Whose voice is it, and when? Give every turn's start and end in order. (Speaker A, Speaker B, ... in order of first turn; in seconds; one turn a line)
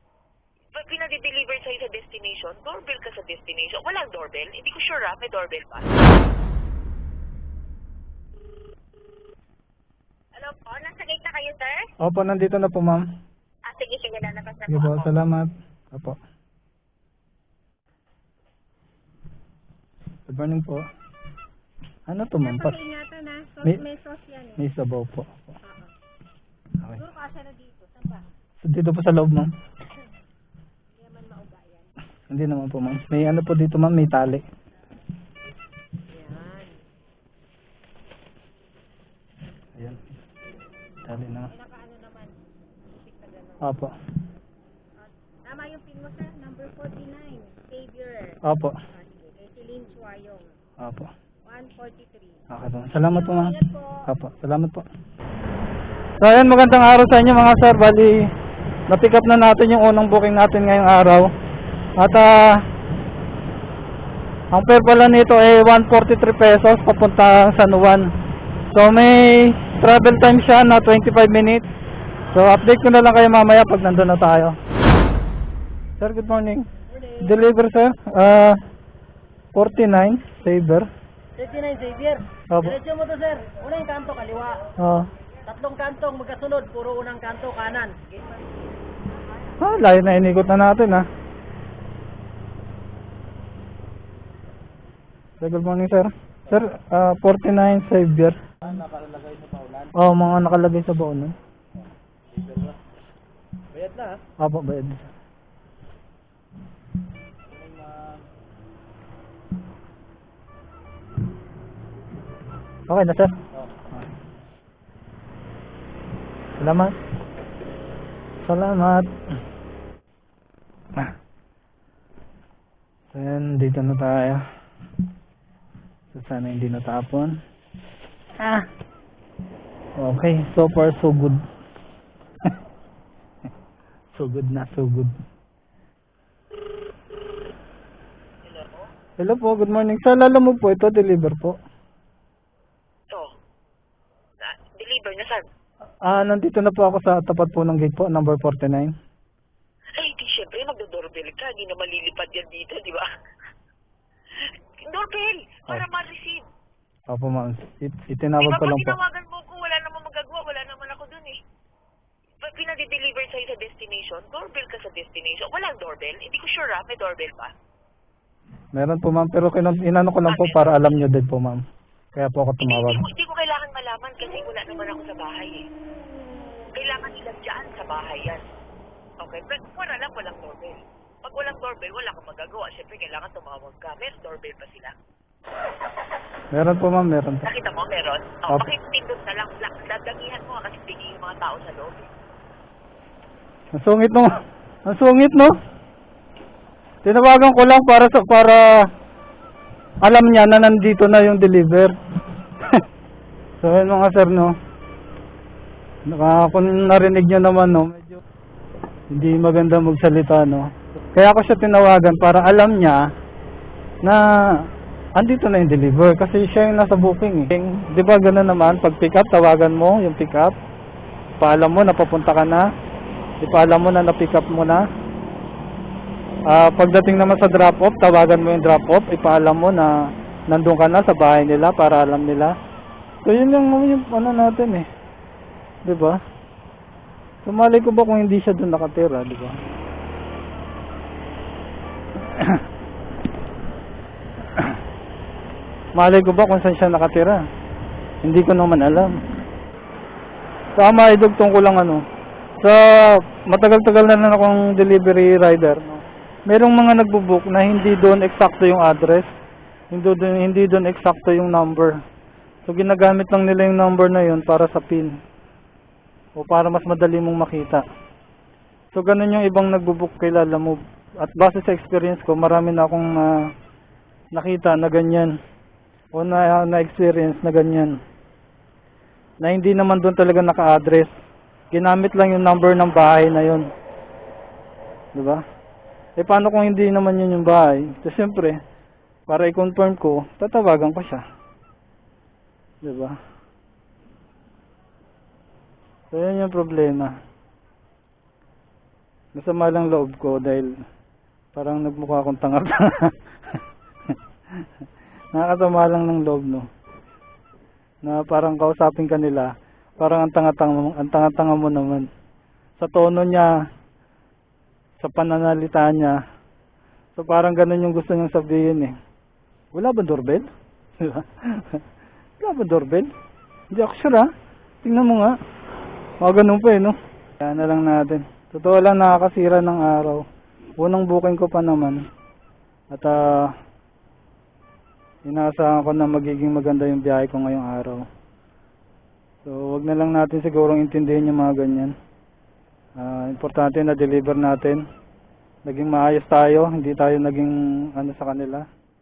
Speaker A: 0.7-5.9
Speaker A: 10.4-11.8
Speaker B: 12.0-13.0
Speaker A: 13.7-15.1
Speaker C: 13.9-14.6
Speaker B: 14.7-16.2
Speaker B: 20.3-20.8
Speaker B: 22.1-22.8
Speaker D: 22.5-24.6
Speaker B: 23.6-23.9
Speaker B: 24.6-25.6
Speaker D: 25.6-25.9
Speaker D: 27.0-28.3
Speaker B: 28.6-29.5
Speaker D: 30.9-31.9
Speaker B: 32.3-34.4
Speaker D: 36.1-36.9
Speaker B: 39.8-40.2
Speaker B: 41.0-41.5
Speaker D: 41.5-43.6
Speaker B: 43.6-43.9
Speaker D: 45.0-50.6
Speaker B: 48.4-48.8
Speaker B: 50.8-51.1
Speaker D: 51.5-52.5
Speaker B: 52.5-54.9
Speaker D: 53.3-54.0
Speaker B: 56.2-58.3
Speaker B: 58.9-61.3
Speaker B: 62.0-62.6
Speaker B: 64.5-68.1
Speaker B: 68.7-71.7
Speaker B: 72.3-74.6
Speaker B: 76.0-76.7
Speaker B: 77.2-78.6
Speaker B: 79.5-80.9
Speaker C: 81.4-84.7
Speaker B: 82.5-82.9
Speaker B: 84.8-85.1
Speaker C: 85.5-88.1
Speaker B: 89.6-91.1
Speaker B: 95.4-98.8
Speaker C: 98.8-99.9
Speaker B: 99.9-101.3
Speaker C: 102.3-102.8
Speaker C: 103.8-104.2
Speaker B: 104.4-105.1
Speaker C: 107.5-108.2
Speaker B: 112.9-113.4
Speaker B: 116.6-117.0
Speaker B: 118.4-119.1
Speaker B: 123.1-124.4
Speaker B: 126.1-127.4
Speaker B: 128.4-128.7
Speaker B: 130.0-131.4
Speaker B: 134.2-135.1
Speaker A: 138.4-138.9
Speaker B: 139.2-141.6
Speaker A: 144.4-145.5
Speaker B: 146.1-148.9
Speaker A: 150.0-153.1
Speaker A: 154.4-156.4
Speaker B: 157.1-159.0
Speaker A: 158.4-161.4
Speaker A: 162.4-167.5
Speaker B: 168.8-171.6
Speaker A: 170.3-171.0
Speaker B: 172.2-173.1
Speaker A: 172.6-175.6
Speaker A: 176.8-178.4
Speaker A: 179.2-184.9
Speaker B: 186.5-187.5
Speaker A: 187.4-192.1
Speaker B: 193.8-194.3
Speaker B: 194.8-195.5
Speaker B: 197.0-198.9
Speaker B: 200.0-201.9
Speaker B: 203.6-204.6
Speaker B: 206.1-208.2
Speaker B: 209.1-213.1
Speaker B: 214.0-220.6
Speaker B: 221.4-222.7
Speaker B: 223.4-224.8
Speaker B: 226.5-229.9
Speaker B: 230.5-232.6
Speaker B: 233.2-234.9
Speaker B: 235.8-236.2
Speaker B: 237.4-239.5
Speaker B: 242.2-242.6
Speaker B: 246.0-247.4
Speaker B: 248.2-249.2
Speaker B: 250.8-252.0
Speaker B: 252.6-255.9
Speaker B: 256.5-259.3
Speaker B: 259.9-262.0
Speaker B: 262.7-265.2
Speaker B: 266.4-267.8
Speaker B: 268.9-273.5
Speaker B: 274.3-275.4
Speaker B: 276.1-278.0
Speaker B: 279.4-281.1
Speaker B: 281.7-283.7
Speaker B: 285.1-285.4
Speaker B: 286.2-288.6
Speaker B: 289.3-291.2
Speaker B: 292.8-293.2
Speaker B: 296.1-297.1
Speaker B: 299.4-300.7
Speaker B: 301.5-303.6
Speaker B: 305.3-306.7
Speaker B: 308.0-312.1
Speaker B: 312.8-313.5
Speaker B: 315.0-316.2
Speaker B: 317.2-318.9
Speaker B: 319.7-320.5
Speaker B: 321.0-321.8
Speaker B: 322.4-323.1
Speaker B: 323.7-324.3
Speaker B: 324.8-325.4
Speaker B: 326.2-330.2
Speaker B: 330.8-332.0
Speaker B: 332.9-333.5
Speaker B: 335.2-338.0
Speaker B: 339.4-341.9
Speaker B: 343.0-344.8
Speaker B: 345.6-348.6